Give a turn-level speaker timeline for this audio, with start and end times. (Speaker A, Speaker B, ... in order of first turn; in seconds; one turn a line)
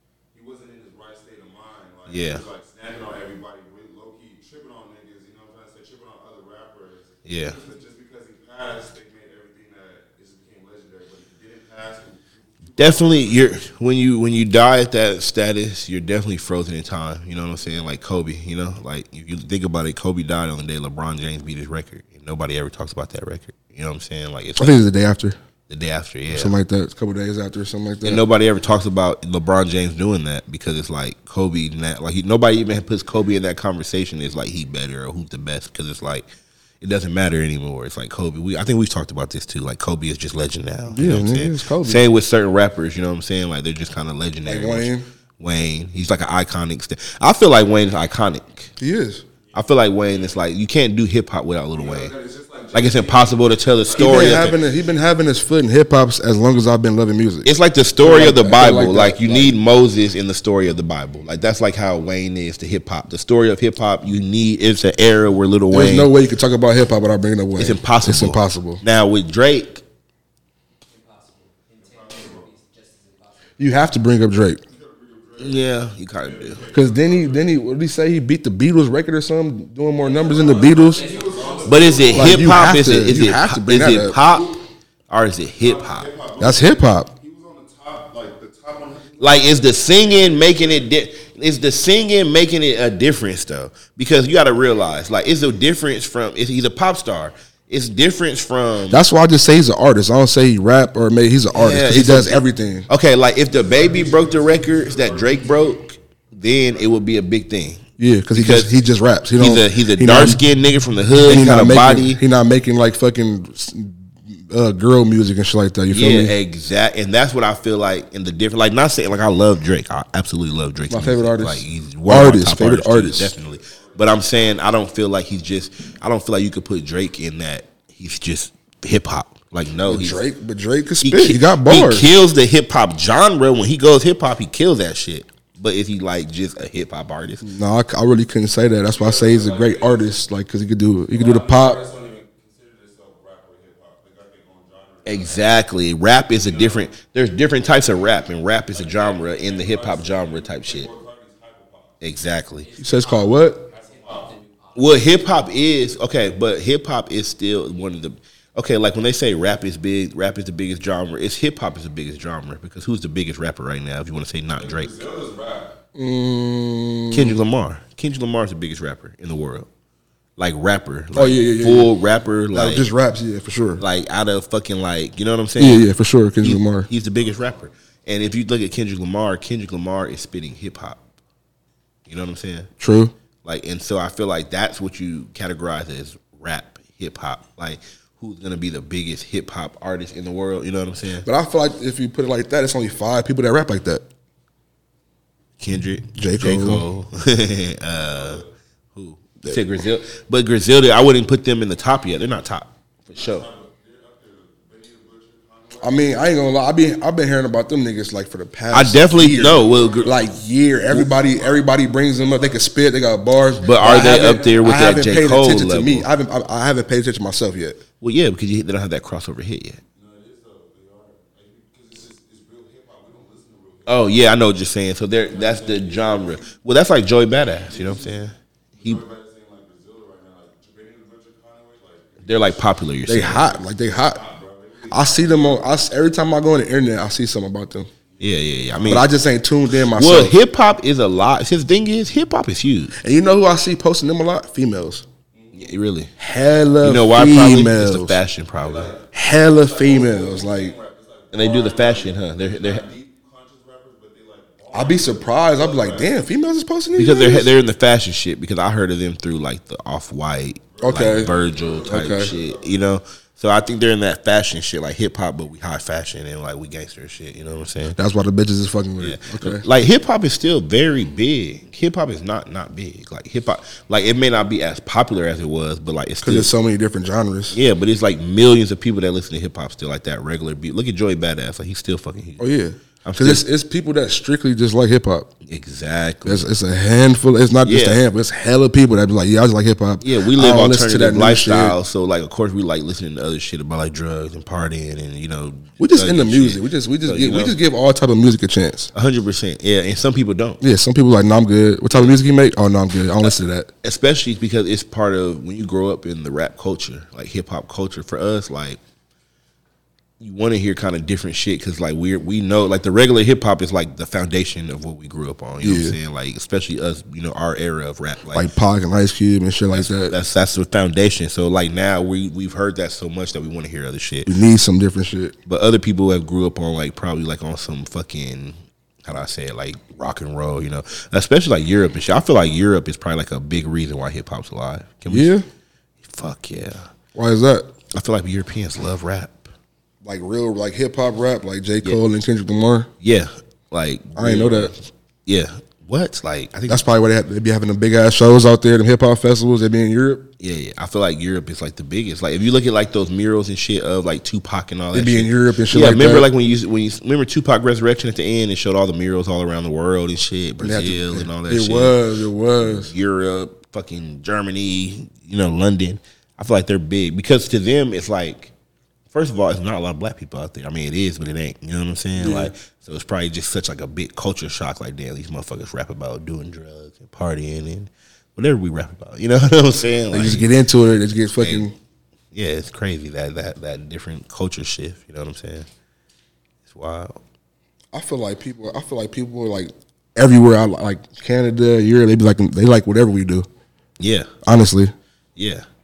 Speaker A: 0.3-13.6
Speaker B: 2.1-2.5
Speaker B: 7.2-7.6
Speaker B: 12.8-24.8
Speaker C: 24.6-25.4
Speaker B: 25.7-26.6
Speaker C: 26.3-28.2
Speaker B: 28.0-36.3
Speaker B: 36.8-48.7
Speaker C: 40.9-42.0
Speaker C: 44.5-45.1
Speaker C: 48.8-49.2
Speaker A: 49.5-50.3
Speaker B: 49.5-52.1
Speaker A: 51.8-54.6
Speaker B: 52.7-54.6
Speaker C: 54.0-57.5
Speaker B: 57.5-66.1
Speaker C: 58.0-59.5
Speaker C: 65.7-68.8
Speaker B: 67.6-69.8
Speaker D: 70.9-73.6
Speaker A: 71.8-72.5
Speaker C: 73.6-74.6
Speaker A: 74.7-77.5
Speaker B: 75.4-76.6
Speaker C: 76.7-81.0
Speaker A: 80.0-82.5
Speaker D: 80.4-82.7
Speaker B: 81.6-86.1
Speaker C: 82.1-84.2
Speaker A: 85.6-90.9
Speaker C: 86.4-87.1
Speaker B: 89.2-99.0
Speaker C: 98.9-102.9
Speaker B: 101.5-107.8
Speaker A: 103.5-105.8
Speaker A: 106.7-107.0
Speaker C: 108.0-110.4
Speaker B: 108.3-108.7
Speaker B: 109.4-112.2
Speaker C: 111.2-116.3
Speaker B: 115.9-130.2
Speaker C: 120.9-123.3
Speaker A: 123.3-124.7
Speaker C: 129.9-132.1
Speaker B: 131.0-137.5
Speaker C: 137.4-141.8
Speaker A: 138.8-140.1
Speaker A: 141.1-145.5
Speaker B: 145.1-150.9
Speaker A: 146.3-147.0
Speaker A: 147.7-152.0
Speaker B: 152.0-152.7
Speaker D: 152.6-155.4
Speaker C: 152.8-153.7
Speaker A: 153.7-154.3
Speaker B: 154.8-165.0
Speaker A: 164.6-165.7
Speaker C: 165.9-167.4
Speaker B: 167.1-169.7
Speaker B: 170.4-172.9
Speaker C: 171.1-171.9
Speaker C: 172.5-173.8
Speaker B: 173.8-175.9
Speaker C: 175.6-176.9
Speaker B: 176.4-181.0
Speaker A: 177.2-177.6
Speaker B: 182.1-182.7
Speaker C: 182.8-183.1
Speaker B: 183.4-191.3
Speaker C: 191.2-194.0
Speaker B: 195.6-203.5
Speaker C: 196.2-196.9
Speaker A: 197.9-198.5
Speaker A: 203.1-206.2
Speaker C: 205.8-217.8
Speaker B: 208.7-210.1
Speaker A: 209.3-210.2
Speaker A: 210.9-212.7
Speaker B: 213.6-216.1
Speaker A: 213.8-214.8
Speaker B: 218.0-219.8
Speaker A: 219.9-224.2
Speaker B: 223.9-229.0
Speaker A: 225.2-226.5
Speaker A: 227.6-228.2
Speaker A: 228.8-235.9
Speaker B: 232.2-233.5
Speaker C: 233.1-234.2
Speaker C: 234.9-237.9
Speaker A: 238.1-239.0
Speaker B: 238.2-239.1
Speaker C: 238.8-240.4
Speaker B: 239.9-243.0
Speaker C: 243.0-245.1
Speaker A: 245.3-245.8
Speaker B: 245.5-246.1
Speaker C: 246.2-248.2
Speaker B: 246.8-248.9
Speaker A: 248.6-256.3
Speaker C: 249.1-250.8
Speaker B: 251.3-252.9
Speaker C: 254.7-257.5
Speaker B: 256.9-268.0
Speaker A: 260.7-262.8
Speaker C: 260.8-261.3
Speaker C: 261.9-262.3
Speaker C: 268.0-269.6
Speaker B: 269.0-276.5
Speaker C: 276.2-277.6
Speaker B: 277.5-282.5
Speaker C: 282.4-285.3
Speaker B: 283.1-283.4
Speaker B: 285.4-286.5
Speaker C: 286.2-291.8
Speaker B: 287.6-288.0
Speaker B: 290.0-297.6
Speaker C: 295.8-298.9
Speaker B: 298.9-300.6
Speaker C: 300.6-303.7
Speaker B: 303.8-308.8
Speaker B: 310.2-318.5
Speaker C: 315.6-316.0
Speaker C: 318.3-320.1
Speaker B: 319.7-324.4
Speaker C: 324.3-325.4
Speaker B: 325.5-335.3
Speaker C: 335.1-335.4
Speaker B: 336.0-336.9
Speaker C: 337.1-337.7
Speaker B: 337.9-339.5
Speaker C: 340.0-342.9
Speaker B: 343.0-346.9
Speaker C: 344.1-344.7
Speaker C: 346.7-350.3
Speaker B: 350.4-362.0
Speaker C: 354.9-356.3
Speaker C: 360.6-362.9
Speaker B: 362.6-368.5
Speaker B: 369.1-380.5
Speaker C: 372.2-372.5
Speaker C: 380.1-381.7
Speaker B: 381.4-381.7
Speaker B: 382.3-385.7
Speaker B: 386.7-387.2
Speaker C: 387.9-393.5
Speaker B: 394.0-394.3
Speaker C: 394.4-394.9
Speaker B: 395.4-395.7